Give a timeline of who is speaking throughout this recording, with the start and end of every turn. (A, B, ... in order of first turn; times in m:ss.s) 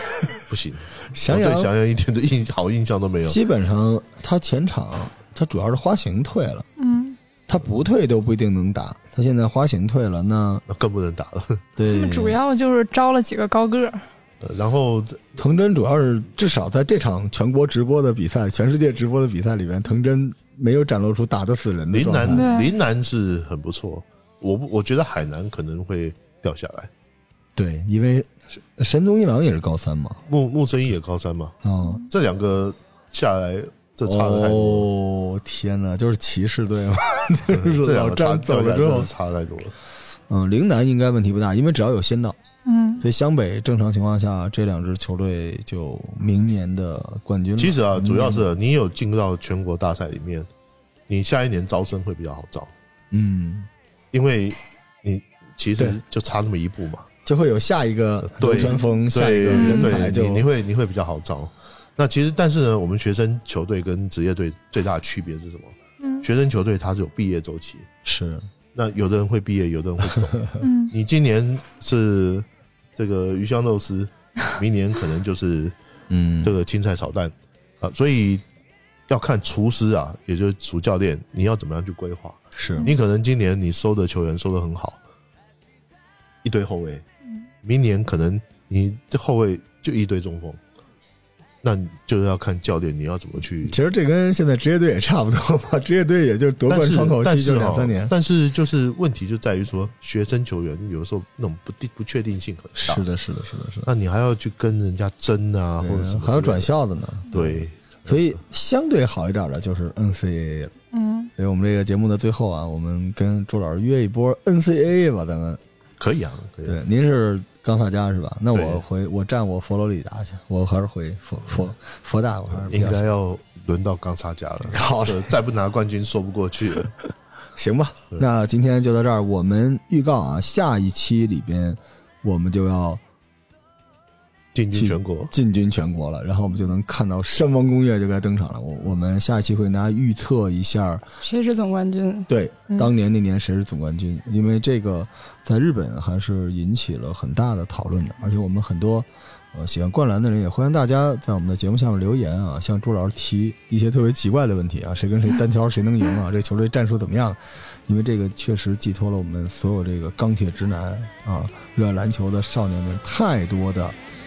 0:00.3-0:03.4 A
0:01.0-0:01.7 B
0:03.3-0:06.7 B
0:06.8-0:07.2 C
0:07.5-0:10.6 B
0:10.7-0:11.6 A
0:11.8-0:12.4 B
0:11.9-0:14.0 C
0:14.4-0:15.3 A
0:15.4-0:22.5 B
0:21.9-0:26.9 A
0:22.2-0:22.7 C
0:27.6-0:30.2 B
0:30.3-0:34.9 A
0:31.6-0:32.0 B
0:34.0-0:39.1 B
0:37.5-0:39.7 A
0:40.3-0:42.4 B
0:42.6-0:43.0 C
0:43.0-0:48.5 B
0:47.6-0:50.5 A
0:51.1-0:52.7 A
0:53.1-0:53.7 B
0:54.1-0:57.1 A
0:57.2-1:00.4 B
0:58.2-1:07.9 A
0:59.5-1:00.0 C
1:08.0-1:08.5 B
1:08.7-1:15.7 A
1:10.2-1:10.5 B
1:10.6-1:10.9 C
1:16.1-1:16.5 B
1:16.4-1:18.4 A
1:19.1-1:25.0 A
1:22.6-1:22.9 B
1:26.4-1:27.0 A
1:27.6-1:30.6 A
1:31.6-1:33.8 A
1:33.6-1:38.1 B
1:36.7-1:43.0 A
1:42.7-1:43.9 B
1:43.8-1:46.7 A
1:45.8-1:50.7 B
1:47.3-1:48.4 A
1:50.9-1:51.3 C
1:51.4-1:55.6 B
1:56.0-1:56.8 A
1:56.6-2:03.0 B
1:58.5-1:58.8 A
2:02.6-2:06.9 A
2:04.7-2:05.3 B
2:07.5-2:13.0 B
2:14.5-2:15.3 A
2:14.7-2:21.2 B
2:21.2-2:22.9 C
2:22.3-2:44.0 B